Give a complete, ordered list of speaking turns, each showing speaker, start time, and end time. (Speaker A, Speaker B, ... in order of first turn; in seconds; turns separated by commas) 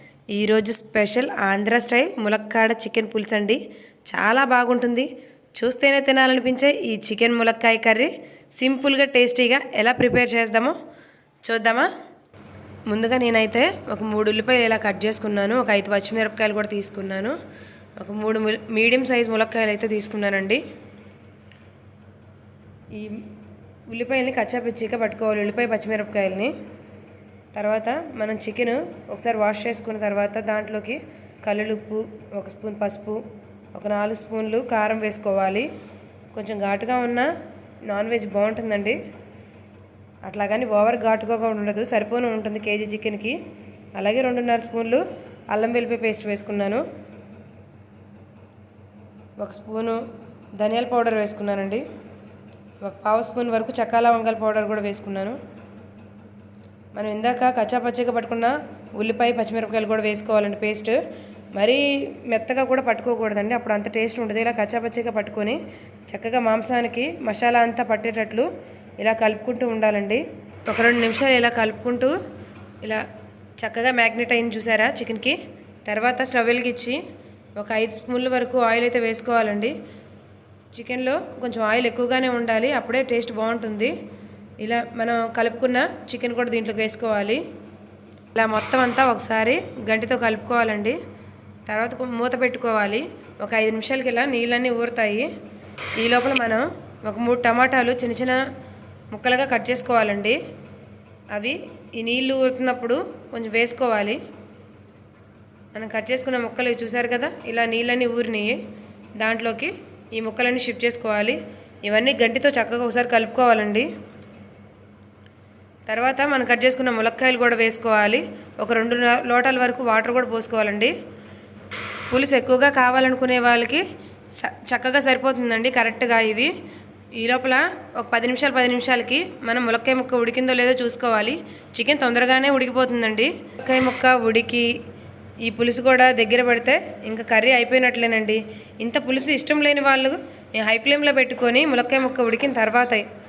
Speaker A: 0.3-10.8, Speaker A: 11.4-11.9, Speaker A: 12.9-17.4, Speaker A: 18.0-20.6, Speaker A: 22.9-23.3, Speaker A: 23.9-26.5, Speaker A: 27.5-33.2, Speaker A: 33.7-35.7, Speaker A: 36.3-37.3, Speaker A: 37.9-39.0, Speaker A: 40.2-43.4, Speaker A: 44.0-46.8, Speaker A: 49.4-50.0, Speaker A: 50.6-51.9, Speaker A: 52.8-55.4, Speaker A: 57.0-61.0, Speaker A: 61.5-68.5, Speaker A: 69.0-72.2, Speaker A: 72.8-73.1, Speaker A: 73.6-77.0, Speaker A: 77.6-79.8, Speaker A: 80.7-83.9, Speaker A: 84.6-87.4, Speaker A: 88.3-91.0, Speaker A: 91.7-95.3, Speaker A: 96.0-98.4, Speaker A: 99.1-100.4, Speaker A: 101.3-104.2, Speaker A: 105.7-108.6, Speaker A: 109.2-113.9, Speaker A: 115.9-120.9, Speaker A: 122.1-126.5, Speaker A: 127.2-134.7, Speaker A: 135.4-143.1